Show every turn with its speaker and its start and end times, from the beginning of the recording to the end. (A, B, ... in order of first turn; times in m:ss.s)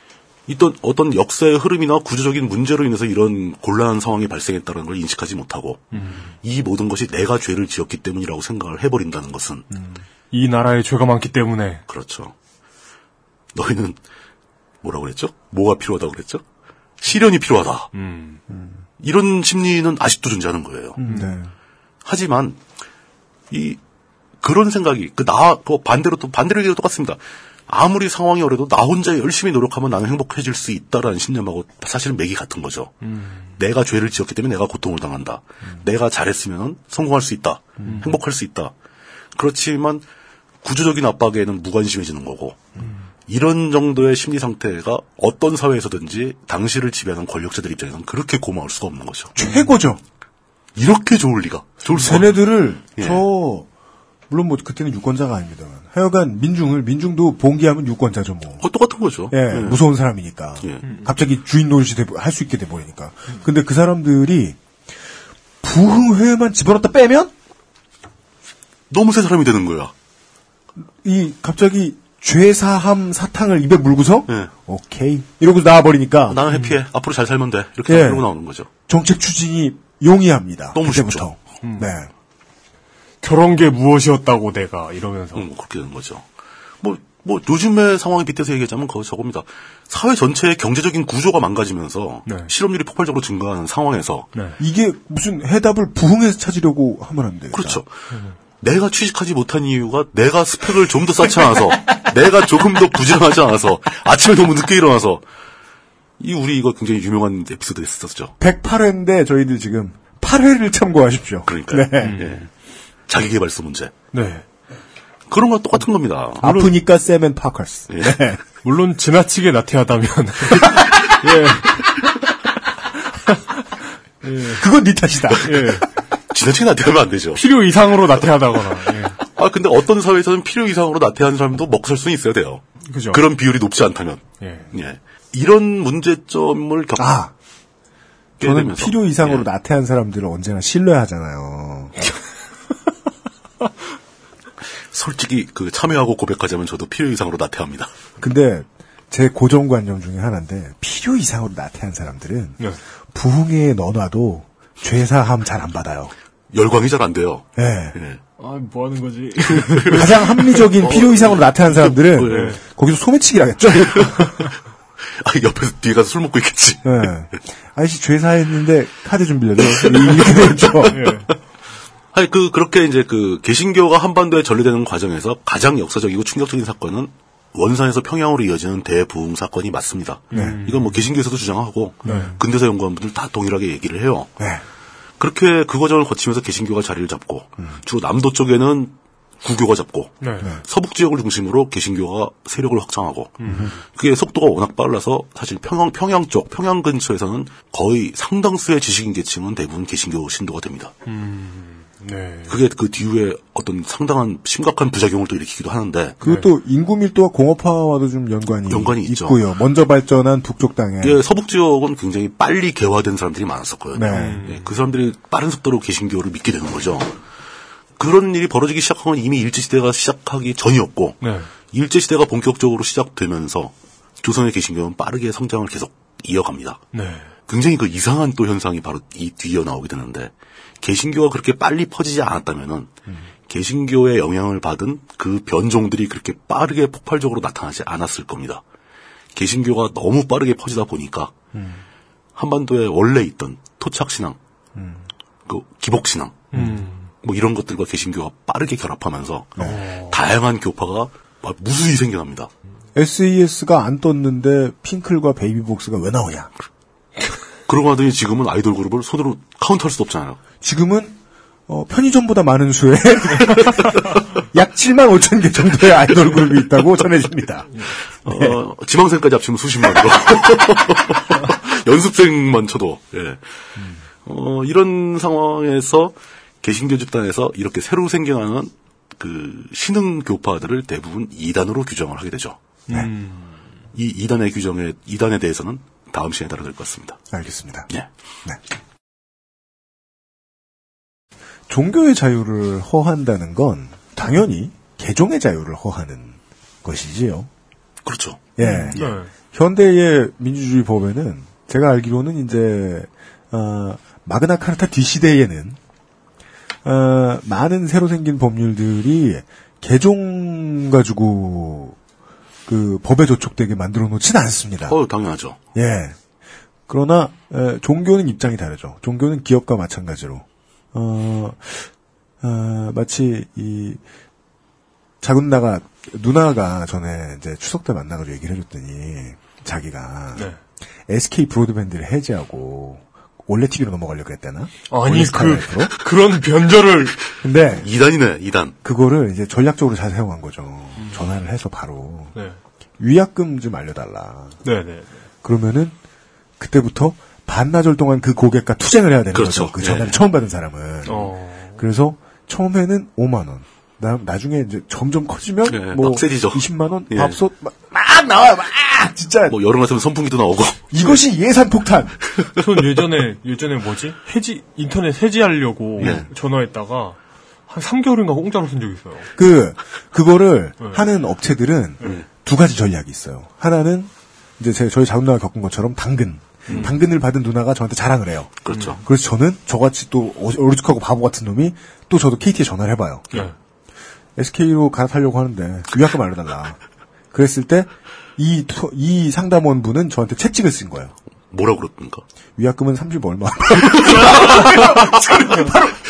0:00.5-0:09.7 A
0:05.9-0:06.4 B
0:09.7-0:10.0 C
0:10.3-0:11.8 B
0:11.9-0:12.3 A
0:13.6-0:14.0 A
0:14.8-0:16.4 A
0:17.0-0:17.9 A
0:17.9-0:18.4 B
0:18.5-0:18.8 C
0:19.0-0:21.0 A
0:21.0-0:21.5 C
0:21.0-0:21.4 B
0:22.0-0:22.6 A
0:23.5-0:23.8 A
0:24.4-0:33.0 A
0:33.0-0:33.4 B
0:33.6-0:38.7 A
0:37.8-0:38.1 C
0:37.8-0:38.1 B
0:39.4-0:40.0 A
0:40.6-0:42.7 A
0:43.3-0:49.4 A
0:49.4-0:50.0 C
0:50.8-0:52.4 A
0:51.9-0:53.7 C
0:53.0-0:53.2 A
0:54.3-0:58.6 C
0:58.6-0:59.8 A
0:59.3-1:04.6 C
1:05.6-1:07.3 C
1:08.9-1:09.9 A
1:11.0-1:16.4 C
1:16.3-1:18.7 A
1:16.5-1:16.8 B
1:17.9-1:18.3 C
1:18.9-1:22.1 C
1:20.8-1:21.3 A
1:21.6-1:21.9 B
1:23.2-1:25.5 B
1:25.4-1:26.3 A
1:26.8-1:34.3 A
1:34.6-1:37.8 C
1:37.5-1:37.9 A
1:38.6-1:45.2 A
1:46.2-1:48.3 A
1:48.4-1:52.2 C
1:51.5-1:52.5 A
1:52.0-1:52.4 B
1:53.1-1:53.9 A
1:54.1-1:54.4 B
1:55.3-1:56.7 A
1:56.4-1:58.4 C
1:57.9-1:58.2 A
1:58.6-2:01.8 B
2:04.2-2:04.6 B
2:04.5-2:05.7 C
2:05.3-2:05.7 A
2:05.4-2:05.8 B
2:06.3-2:07.5 A
2:07.4-2:09.2 B
2:09.2-2:17.2 A
2:12.9-2:13.2 B
2:14.4-2:14.7 B
2:17.0-2:17.3 C
2:18.4-2:19.5 A
2:18.4-2:22.0 C
2:24.9-2:27.9 A
2:28.2-2:32.6 C
2:33.1-2:36.1 C
2:36.5-2:38.2 A
2:37.6-2:38.0 C
2:38.4-2:40.4 B
2:39.6-2:42.6 A
2:39.9-2:44.4 C
2:42.3-2:42.6 B
2:45.0-2:47.1 A
2:46.8-2:51.0 C
2:49.7-2:51.1 A
2:50.9-2:51.3 B
2:52.1-3:04.3 A
3:00.3-3:00.6 C
3:00.3-3:01.0 B
3:02.0-3:02.3 B
3:02.0-3:02.4 C
3:05.2-3:20.9 A
3:10.2-3:10.5 B
3:13.4-3:13.8 B
3:13.5-3:13.7 C
3:21.1-3:22.6 B
3:22.5-3:26.2 A
3:26.2-3:31.2 C
3:26.2-3:26.5 B
3:28.7-3:29.4 A
3:31.0-3:37.2 A
3:33.9-3:34.4 C
3:34.1-3:34.8 B
3:38.0-3:46.8 A
3:41.2-3:41.5 B
3:46.9-3:47.3 B
3:47.5-3:52.9 A
3:53.5-3:58.6 A
3:59.3-4:01.3 A
4:01.5-4:01.8 C
4:02.4-4:04.4 A
4:04.8-4:05.1 C
4:05.5-4:06.6 A
4:06.5-4:07.1 B
4:07.2-4:12.5 A
4:09.6-4:10.2 B
4:13.0-4:16.5 C
4:17.7-4:20.4 A
4:20.6-4:21.2 C
4:21.7-4:28.6 C
4:26.3-4:26.8 A
4:28.2-4:42.6 A
4:42.9-4:43.6 B
4:43.9-4:47.2 A
4:47.3-4:47.9 C
4:51.7-4:57.5 C
4:58.0-4:59.1 A
4:58.6-5:05.8 C
4:58.6-4:59.3 B
5:06.8-5:12.0 C
5:12.7-5:15.0 C
5:14.9-5:15.6 A
5:15.8-5:16.2 C
5:16.9-5:24.0 C
5:25.2-5:30.5 C
5:31.1-5:35.9 C
5:34.9-5:37.2 B
5:37.4-5:37.9 C
5:37.8-5:38.8 A
5:38.8-5:42.3 C
5:43.0-5:44.6 C
5:44.6-5:45.2 B
5:45.4-5:46.0 C
5:46.6-5:59.6 C
5:49.3-5:50.2 A
5:51.1-5:51.8 B
5:55.7-5:57.4 A
5:59.5-6:01.2 A
6:00.9-6:02.2 C
6:02.3-6:02.6 A
6:02.6-6:07.2 B
6:06.0-6:06.3 A
6:06.0-6:06.3 C
6:07.7-6:09.3 B
6:09.4-6:23.4 C
6:16.7-6:16.9 B
6:18.6-6:19.0 A
6:18.7-6:19.0 B
6:24.4-6:26.8 C
6:27.3-6:31.2 C
6:31.5-6:32.2 A
6:32.6-6:36.0 C
6:34.1-6:34.8 A
6:34.2-6:35.0 B